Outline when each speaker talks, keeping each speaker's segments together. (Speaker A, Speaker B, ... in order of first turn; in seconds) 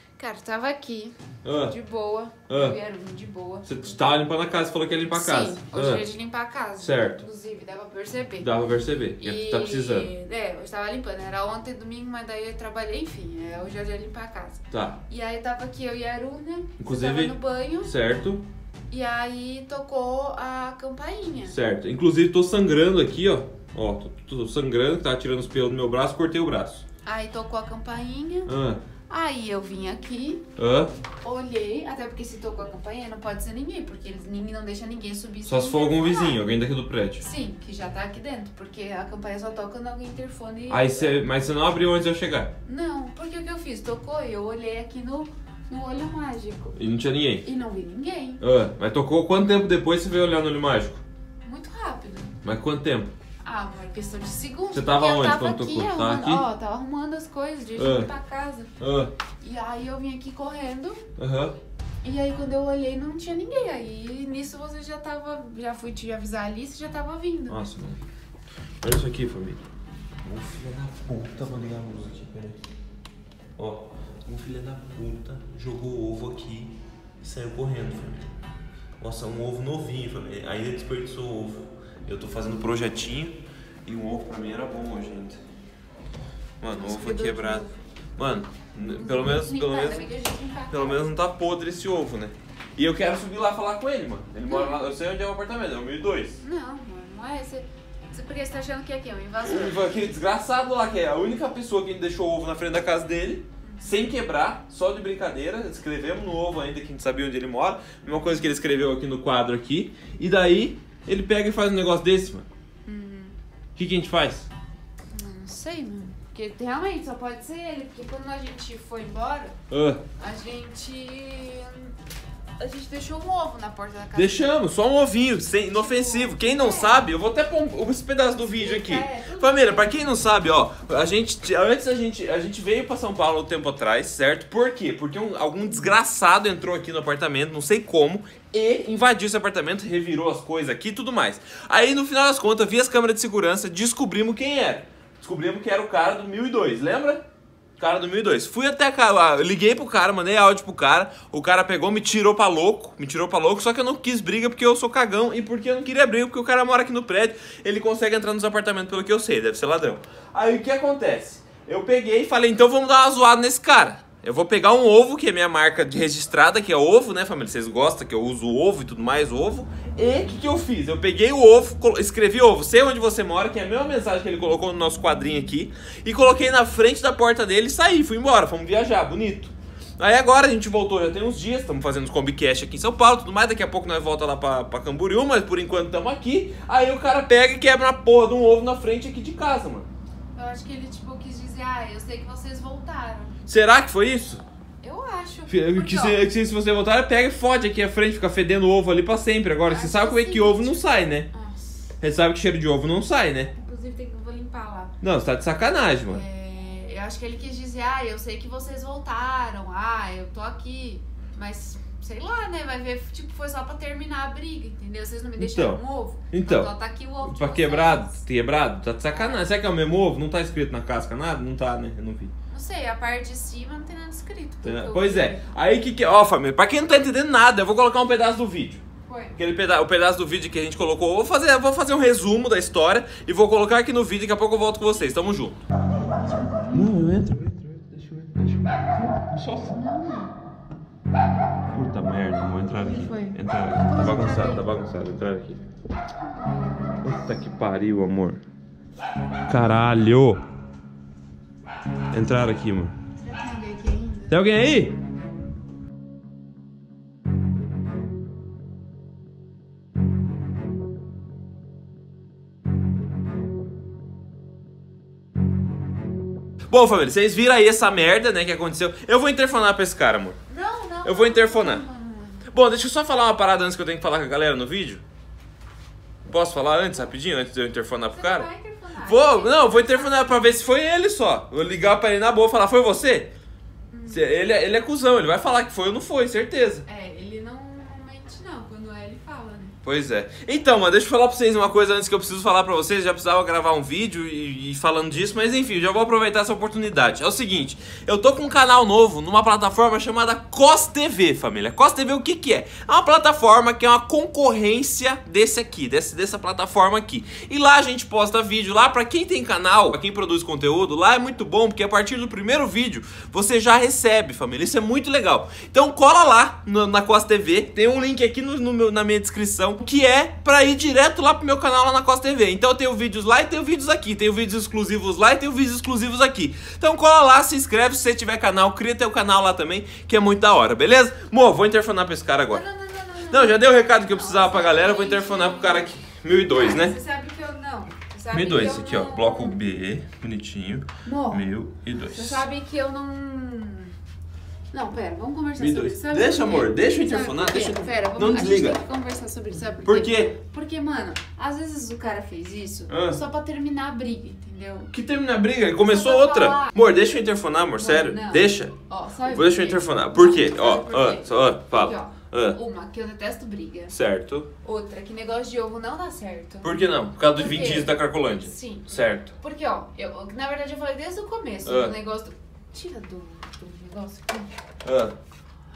Speaker A: 0.2-3.8, 5.1-8.5, 9.2-17.9, 18.9-21.6, 27.0-28.5, 29.1-30.4, 31.2-36.4, 37.2-41.1, 42.6-46.8, 47.4-48.4, 51.4-52.4, 53.4-58.7, 59.4-61.0, 62.0-67.6, 86.7-87.8, 88.8-91.1, 94.5-94.8, 96.4-99.9, 103.6-104.1, 112.8-113.4, 115.1-119.5, 120.2-121.9, 122.6-124.5, 125.6-127.1, 128.4-130.1, 190.3-193.3, 194.8-196.3, 199.7-201.9, 203.5-204.9, 206.0-218.2, 222.5-225.5, 229.1-229.4, 236.4-236.9, 239.7-240.3, 242.8-244.6, 253.2-254.3, 270.5-272.4, 278.1-280.4, 283.9-284.3, 286.9-289.8, 332.5-335.9, 336.4-339.6, 341.0-343.9, 344.7-354.9, 355.8-357.2, 357.7-363.9, 364.6-374.5
Speaker B: 1.4-1.7, 2.5-2.8, 3.6-6.0, 6.8-7.2, 8.4-10.1, 14.7-15.0, 16.8-18.4, 21.5-26.8, 28.4-28.8, 30.6-30.9, 35.5-37.2, 40.7-42.5, 46.8-47.5, 48.4-51.0, 52.4-53.1, 54.7-56.4, 57.8-58.1, 58.8-59.1, 61.2-61.5, 67.5-68.0, 68.8-69.6, 70.2-72.6, 73.6-78.3, 79.0-85.4, 86.6-90.1, 90.7-96.4, 99.4-112.5, 113.8-114.5, 119.7-120.0, 124.1-147.2, 147.8-189.9, 193.4-194.4, 195.5-201.3, 202.0-203.5, 205.0-206.2, 215.4-215.8, 216.3-216.7, 217.2-222.3, 224.6-228.8, 229.4-235.6, 236.7-239.8, 241.7-245.6, 247.0-248.4, 249.5-250.4, 252.1-252.9, 254.3-255.0, 266.7-270.4, 271.0-271.8, 272.4-275.0, 276.2-278.5, 279.0-283.3, 284.1-286.8, 289.8-332.6, 333.3-337.0, 338.3-342.4, 345.6-348.8, 349.8-350.3, 352.9-353.2, 354.9-362.6, 363.9-364.5, 366.6-369.3, 371.6-371.9, 374.8-375.1